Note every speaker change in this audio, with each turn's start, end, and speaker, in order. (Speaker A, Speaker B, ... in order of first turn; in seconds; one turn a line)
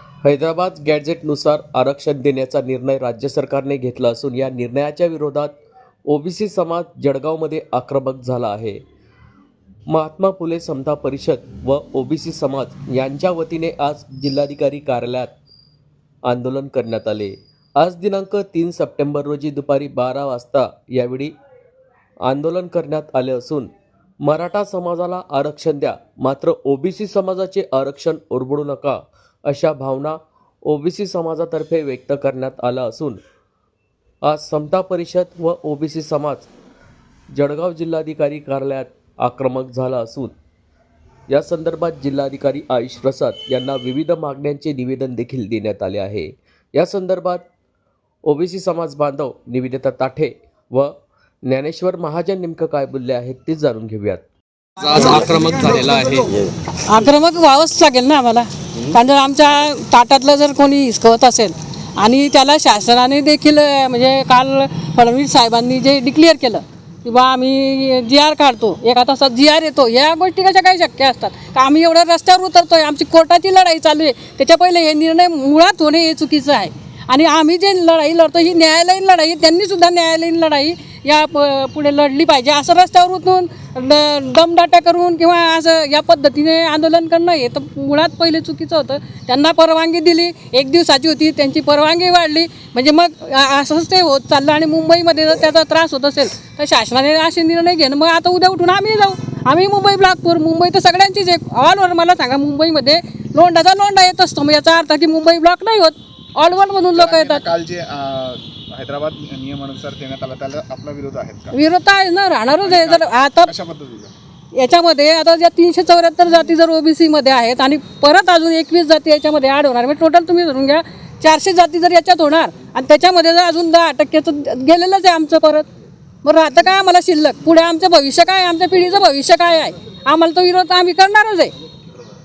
Speaker A: 0.2-5.5
Speaker A: 6.1-8.8
Speaker A: 9.9-15.3
Speaker A: 16.3-21.3
Speaker A: 22.3-23.7
Speaker A: 24.2-33.2
Speaker A: 34.2-36.5
Speaker A: 37.3-40.4
Speaker A: 41.3-47.5
Speaker A: 48.3-50.9
Speaker A: 51.5-54.2
Speaker A: 54.8-56.3
Speaker B: 56.9-107.4
Speaker C: 107.0-111.5
Speaker B: 111.5-113.5
Speaker C: 112.6-114.1
Speaker B: 114.5-125.7
Speaker B: 126.2-131.5